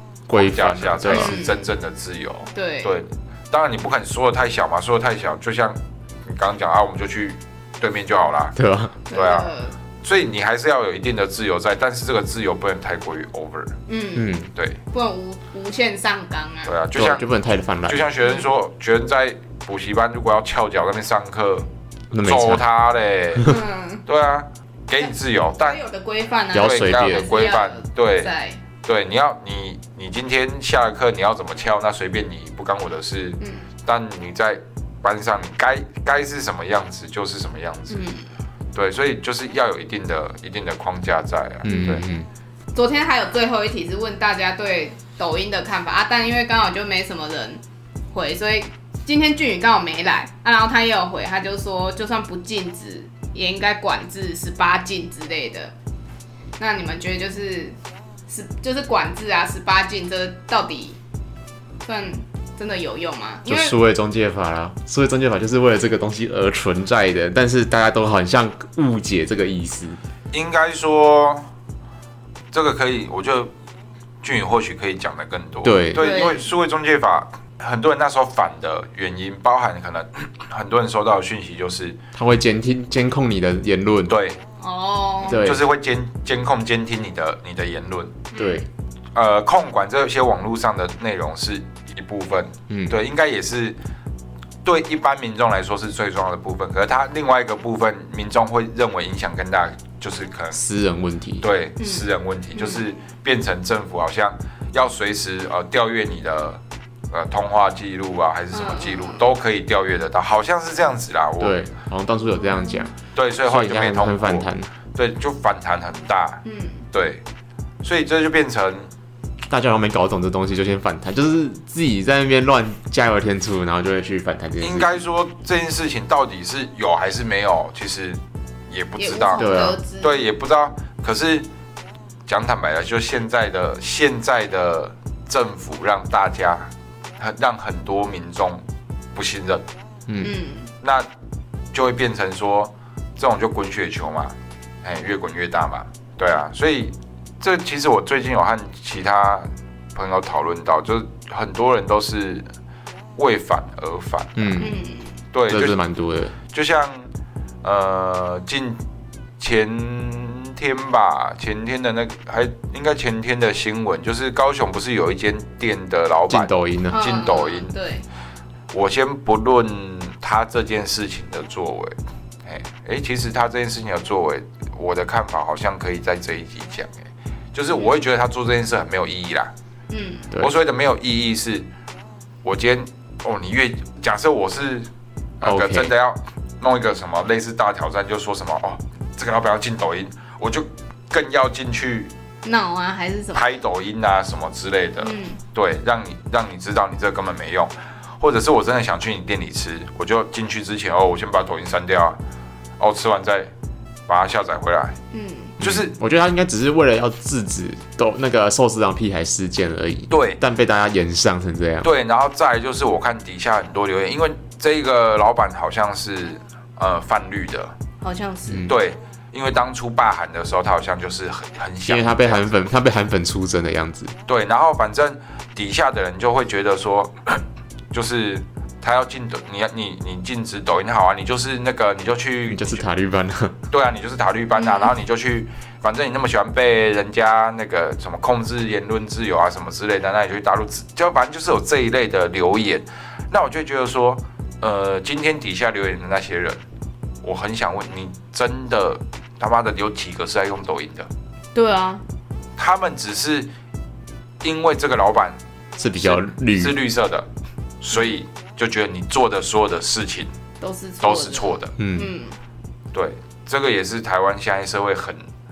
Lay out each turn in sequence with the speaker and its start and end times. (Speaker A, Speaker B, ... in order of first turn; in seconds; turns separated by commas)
Speaker A: 0.3-1.4, Speaker B: 0.3-8.6, Speaker C: 1.1-1.7, Speaker C: 2.5-2.9, Speaker A: 8.6-9.0, Speaker C: 9.1-9.8, Speaker B: 9.1-9.5, Speaker B: 10.0-13.8, Speaker C: 13.9-14.3, Speaker A: 14.1-14.5, Speaker B: 14.5-14.8, Speaker C: 14.9-16.7, Speaker B: 16.6-17.2, Speaker A: 16.9-18.0, Speaker B: 17.9-21.6, Speaker A: 22.1-22.6, Speaker B: 22.2-23.5, Speaker C: 23.4-24.0, Speaker B: 24.1-25.8, Speaker C: 25.0-28.6, Speaker A: 26.5-27.3, Speaker B: 26.5-28.3, Speaker B: 28.8-38.1, Speaker C: 33.4-33.7, Speaker C: 37.9-38.3, Speaker B: 38.7-42.0, Speaker A: 41.6-42.3, Speaker C: 42.7-47.6, Speaker C: 48.1-55.7, Speaker C: 56.6-57.8, Speaker C: 58.3-61.0, Speaker C: 61.8-63.7, Speaker A: 63.4-70.0, Speaker B: 70.3-71.5, Speaker B: 72.5-73.5, Speaker B: 74.2-82.0, Speaker A: 75.6-76.2, Speaker C: 76.0-76.5, Speaker A: 82.2-84.1, Speaker B: 84.1-84.4, Speaker C: 84.6-85.5, Speaker A: 85.3-85.6, Speaker B: 85.3-88.2, Speaker C: 88.3-88.7, Speaker A: 88.3-88.7, Speaker B: 89.1-93.8, Speaker A: 92.7-93.0, Speaker B: 94.6-100.6, Speaker A: 100.5-101.5, Speaker B: 101.4-111.6, Speaker C: 101.8-102.8, Speaker C: 108.5-109.2, Speaker A: 111.4-112.9, Speaker C: 112.5-112.8, Speaker B: 113.1-117.2, Speaker A: 113.5-114.7, Speaker C: 116.4-116.8, Speaker B: 117.8-118.9, Speaker A: 119.5-125.0, Speaker B: 124.6-129.5, Speaker C: 128.9-130.2, Speaker A: 129.3-129.8, Speaker B: 130.0-131.5, Speaker B: 132.3-138.6, Speaker B: 139.1-139.6, Speaker C: 140.2-140.7, Speaker B: 140.8-141.1, Speaker B: 141.7-152.4, Speaker B: 153.2-154.7, Speaker A: 154.3-154.7, Speaker C: 154.6-155.1, Speaker B: 155.3-155.8, Speaker A: 155.5-156.3, Speaker B: 156.5-157.1, Speaker B: 157.6-158.8, Speaker B: 159.4-167.7, Speaker A: 166.3-167.0, Speaker C: 166.9-168.0, Speaker B: 168.7-177.0, Speaker B: 177.5-179.5, Speaker C: 179.9-180.3, Speaker B: 180.4-181.7, Speaker B: 182.4-184.9, Speaker B: 185.4-192.1, Speaker A: 185.4-185.9, Speaker C: 192.4-193.6, Speaker B: 193.3-202.2, Speaker C: 195.0-195.4, Speaker B: 202.8-203.5, Speaker B: 204.1-204.9, Speaker C: 205.1-205.5, Speaker B: 205.6-205.9, Speaker A: 205.6-211.9, Speaker B: 210.1-210.4, Speaker B: 211.8-217.7, Speaker C: 218.0-218.7, Speaker A: 218.5-218.7, Speaker B: 218.7-222.5, Speaker A: 221.8-224.1, Speaker B: 224.2-232.8, Speaker A: 232.5-233.6, Speaker B: 233.7-246.6, Speaker C: 234.6-234.9, Speaker B: 247.2-251.1, Speaker C: 251.5-252.0, Speaker B: 252.6-253.5, Speaker B: 254.4-255.4, Speaker A: 255.8-256.8, Speaker B: 256.0-257.3, Speaker B: 257.8-260.3, Speaker C: 260.6-262.4, Speaker B: 261.0-261.7, Speaker A: 261.8-262.1, Speaker B: 262.9-265.3